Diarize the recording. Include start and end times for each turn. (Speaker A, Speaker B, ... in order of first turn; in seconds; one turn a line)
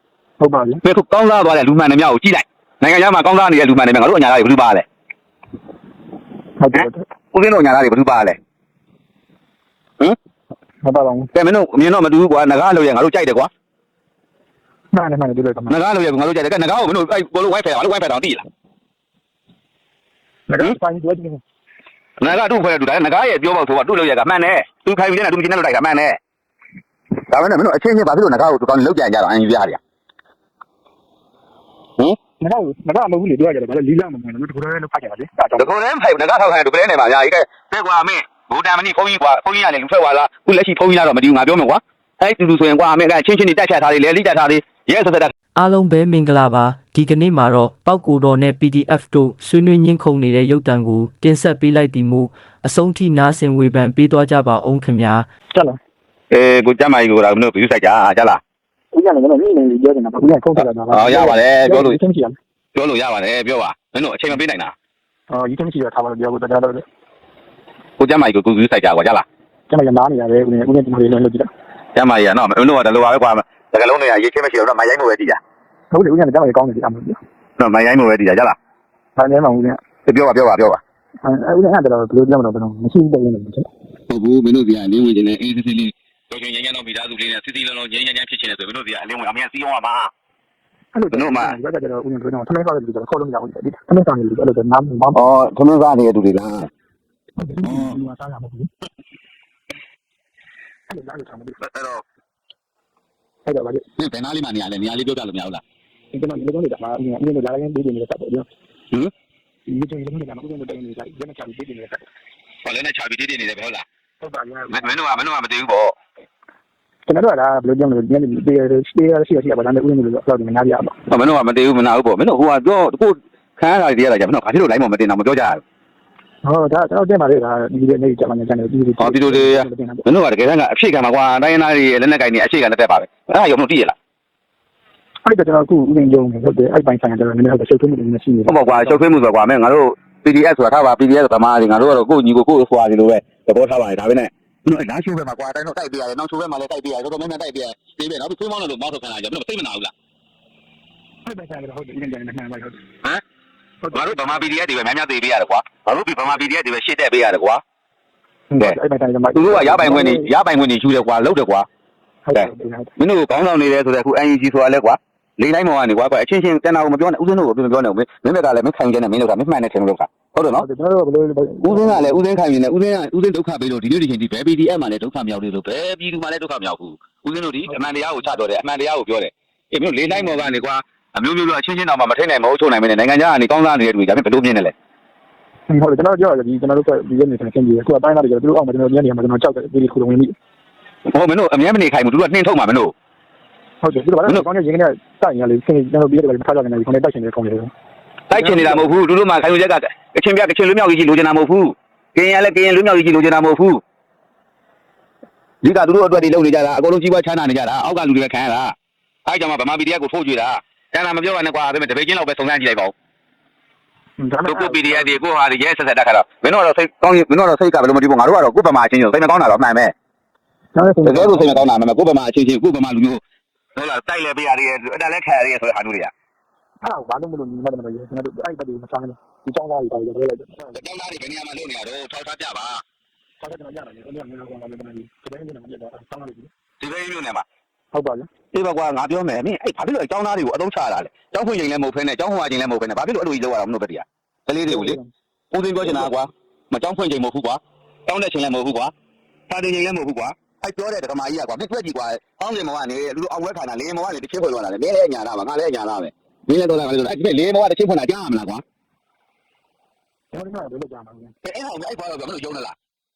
Speaker A: 0.4-0.8
Speaker B: 0.8-4.8
Speaker A: 6.6-7.0
Speaker B: 6.7-8.4
Speaker A: 10.8-11.3
Speaker B: 11.3-13.5
Speaker A: 14.9-15.7
Speaker B: 15.7-18.4
Speaker A: 20.5-21.4
Speaker B: 22.2-26.2
Speaker B: 27.3-29.8
Speaker A: 32.4-35.7
Speaker B: 35.6-45.3
Speaker C: 45.6-55.3
Speaker A: 55.5-55.8
Speaker B: 56.3-58.4
Speaker A: 58.9-62.4
Speaker B: 60.6-62.0
Speaker B: 62.8-64.7
Speaker A: 65.3-66.8
Speaker B: 68.0-69.2
Speaker A: 69.7-71.5
Speaker B: 72.0-75.4
Speaker A: 75.9-77.2
Speaker B: 77.6-78.5
Speaker A: 79.2-79.8
Speaker B: 80.1-80.8
Speaker A: 81.2-83.7
Speaker B: 84.1-90.1
Speaker A: 90.9-95.3
Speaker B: 91.1-91.5
Speaker B: 95.2-96.7
Speaker A: 97.4-98.7
Speaker B: 97.6-98.0
Speaker A: 100.9-101.6
Speaker B: 101.6-102.0
Speaker A: 103.5-103.8
Speaker B: 104.0-105.6
Speaker A: 106.1-108.5
Speaker A: 109.7-112.0
Speaker B: 112.7-113.8
Speaker A: 114.2-114.9
Speaker B: 114.7-116.0
Speaker A: 117.1-121.0
Speaker B: 121.1-125.6
Speaker A: 126.5-130.1
Speaker B: 129.0-133.9
Speaker A: 135.2-139.0
Speaker B: 138.5-149.9
Speaker A: 151.3-152.8
Speaker A: 153.8-154.2
Speaker B: 153.9-157.6
Speaker A: 158.5-160.3
Speaker B: 159.3-161.7
Speaker A: 162.3-162.9
Speaker B: 163.0-170.7
Speaker A: 170.6-172.2
Speaker B: 171.6-184.7
Speaker A: 185.7-190.3
Speaker B: 191.1-192.9
Speaker A: 193.8-197.7
Speaker B: 198.3-203.8
Speaker A: 198.3-198.8
Speaker B: 205.6-208.7
Speaker B: 209.3-212.9
Speaker A: 214.2-215.2
Speaker B: 214.5-219.9
Speaker A: 220.8-221.7
Speaker B: 221.1-223.2
Speaker B: 223.8-226.1
Speaker A: 226.8-230.7
Speaker B: 230.7-232.8
Speaker A: 233.4-236.5
Speaker B: 236.8-237.4
Speaker A: 237.9-238.3
Speaker B: 238.5-245.0
Speaker A: 244.7-245.1
Speaker B: 245.5-248.9
Speaker B: 249.5-258.6
Speaker A: 260.3-261.4
Speaker B: 261.4-262.7